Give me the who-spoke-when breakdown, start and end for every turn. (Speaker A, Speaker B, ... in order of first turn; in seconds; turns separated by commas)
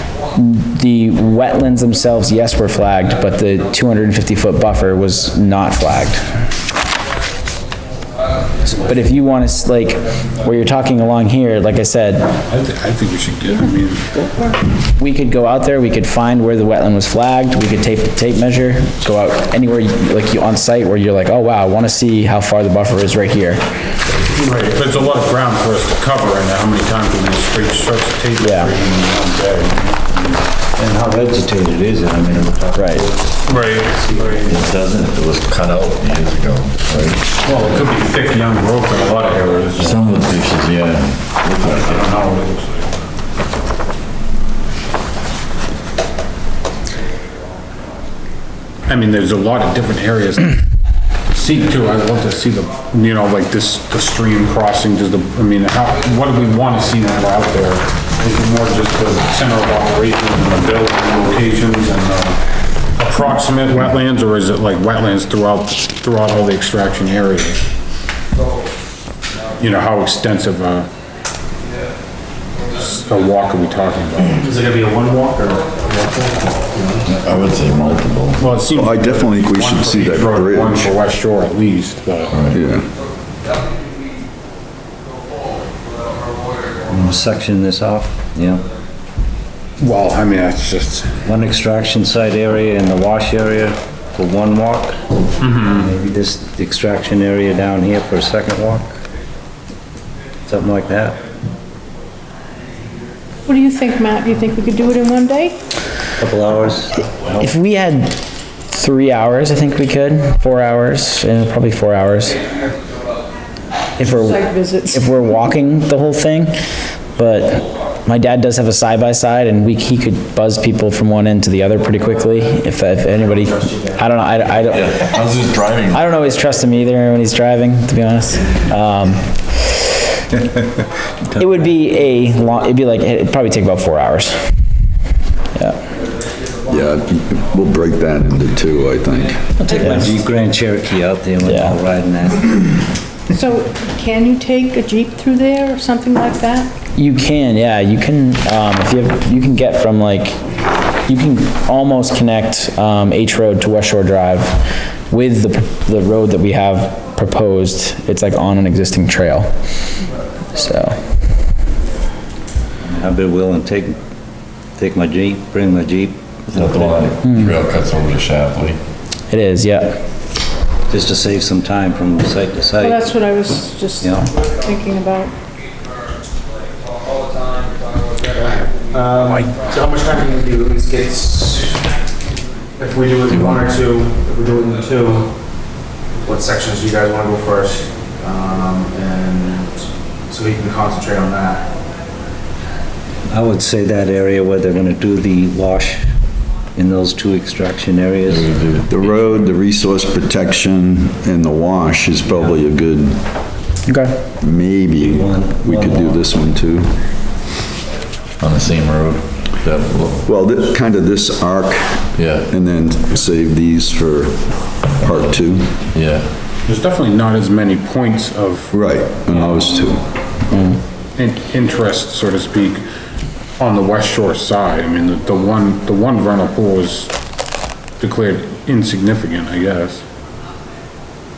Speaker A: 0.3-6.2, Speaker A: 8.7-12.3, Speaker B: 12.5-14.1, Speaker C: 14.2-14.5, Speaker A: 14.9-23.6, Speaker B: 24.2-30.4, Speaker A: 28.4-28.7, Speaker D: 30.8-33.6, Speaker A: 32.7-33.0, Speaker B: 33.5-34.6, Speaker E: 34.5-37.8, Speaker B: 37.4-40.0, Speaker E: 39.8-42.2, Speaker B: 41.6-43.0, Speaker B: 48.9-50.6, Speaker B: 51.3-62.4, Speaker B: 63.0-67.6, Speaker B: 69.6-70.9, Speaker B: 72.8-74.4, Speaker F: 74.4-77.0, Speaker E: 77.0-78.5, Speaker B: 78.4-82.4, Speaker G: 78.7-81.0, Speaker E: 82.3-82.6, Speaker G: 82.5-82.8, Speaker D: 86.9-88.7, Speaker B: 89.8-91.2, Speaker D: 91.2-95.0, Speaker B: 95.4-95.9, Speaker D: 95.7-99.0, Speaker D: 100.5-101.2, Speaker C: 103.5-105.6, Speaker D: 106.2-107.5, Speaker A: 107.4-112.4, Speaker A: 114.0-116.6, Speaker C: 114.0-115.1, Speaker A: 117.2-125.1, Speaker E: 124.7-126.0, Speaker A: 125.9-129.8, Speaker A: 131.4-134.5, Speaker G: 136.7-139.4, Speaker D: 139.6-142.9, Speaker A: 139.8-140.2, Speaker A: 141.4-141.8, Speaker C: 143.3-146.7, Speaker A: 147.0-150.4, Speaker A: 151.1-159.5, Speaker A: 160.5-161.0, Speaker D: 162.8-164.0, Speaker D: 164.8-167.1, Speaker E: 166.5-168.8, Speaker A: 167.2-167.6, Speaker A: 169.3-170.0, Speaker D: 170.9-173.1, Speaker C: 172.8-175.3, Speaker D: 174.0-174.3, Speaker F: 178.4-181.7, Speaker F: 182.8-185.3, Speaker E: 183.3-183.7, Speaker F: 186.2-189.7, Speaker F: 190.3-191.6, Speaker D: 193.3-196.1, Speaker D: 196.8-198.5, Speaker E: 198.2-199.1, Speaker G: 198.9-203.2, Speaker A: 203.9-204.2, Speaker G: 204.4-206.9, Speaker D: 205.0-206.2, Speaker E: 208.4-210.2, Speaker G: 210.2-215.8, Speaker E: 212.2-212.5, Speaker E: 215.9-216.3, Speaker B: 216.7-218.7, Speaker G: 218.7-220.0, Speaker A: 220.5-220.8, Speaker B: 221.2-222.8, Speaker B: 223.6-227.1, Speaker B: 228.0-230.0